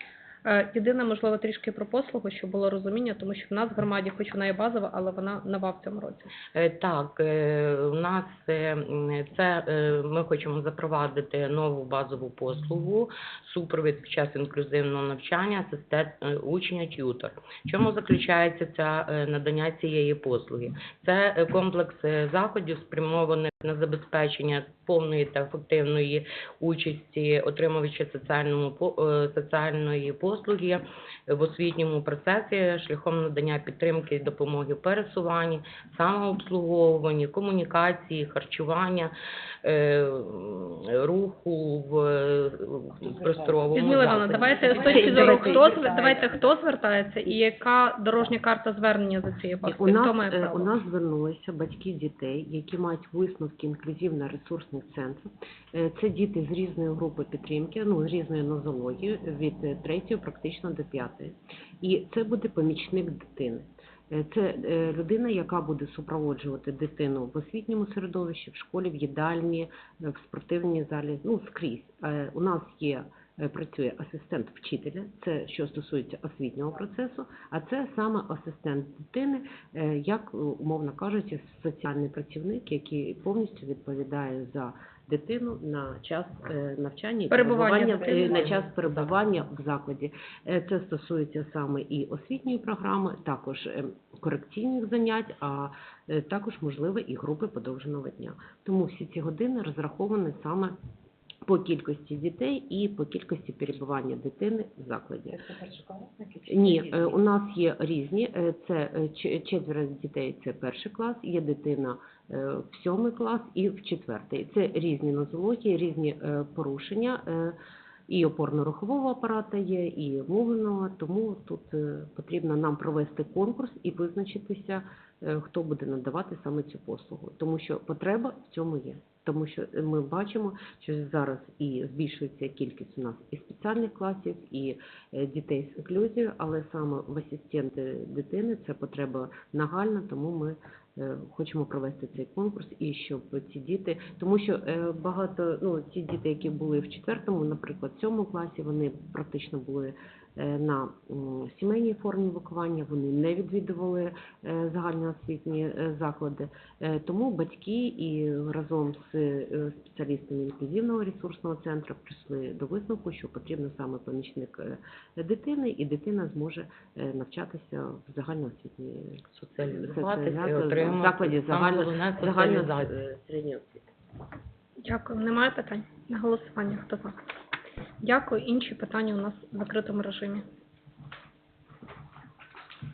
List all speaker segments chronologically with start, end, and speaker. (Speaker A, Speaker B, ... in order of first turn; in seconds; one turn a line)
Speaker A: 0.5-6.3
Speaker B: 6.5-39.1
Speaker B: 39.6-45.9
Speaker A: 43.8-50.7
Speaker C: 44.7-46.3
Speaker C: 49.6-100.8
Speaker A: 87.3-88.7
Speaker C: 101.5-105.7
Speaker C: 106.3-117.6
Speaker C: 118.1-173.8
Speaker B: 169.3-172.9
Speaker A: 174.8-177.2
Speaker A: 178.0-180.4